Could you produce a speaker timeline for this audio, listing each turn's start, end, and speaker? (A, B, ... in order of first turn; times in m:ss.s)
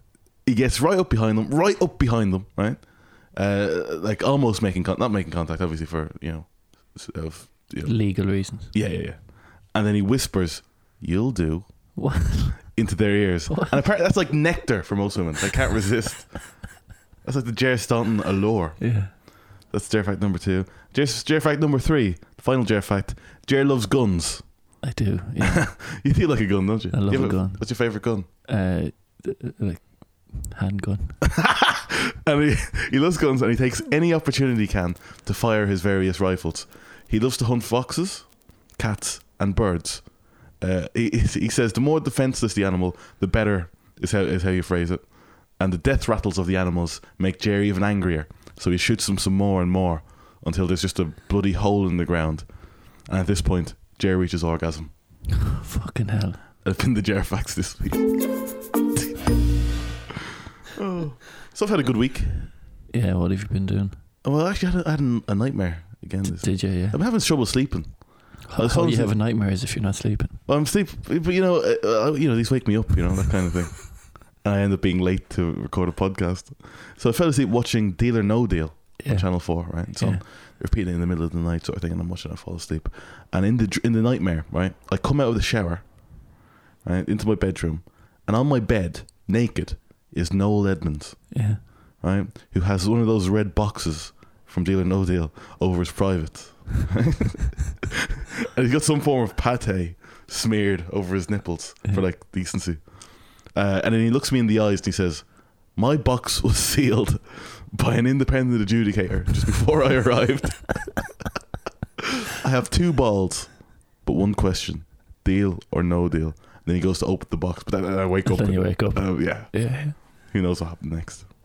0:00.4-0:12.0 A
0:07.8-0:08.7 B
0:12.0-0:12.8 B
0:12.7-0:24.7 A
0:13.5-0:13.8 B
0:18.8-0:19.1 B
0:24.8-0:25.9 B
0:25.4-0:28.3 A
0:26.9-0:31.2 B
0:31.3-0:54.9 A
0:55.5-0:56.4 B
0:56.6-0:58.2 A
1:00.8-1:02.5 A
1:02.9-1:04.0 B
1:04.2-1:09.2 A
1:06.2-1:07.0 B
1:08.5-1:10.4 B
1:10.5-1:37.8 A
1:19.0-1:20.2 B
1:31.3-1:31.6 B
1:38.6-1:51.1 A
1:52.4-2:01.3 A
1:58.2-2:00.0 B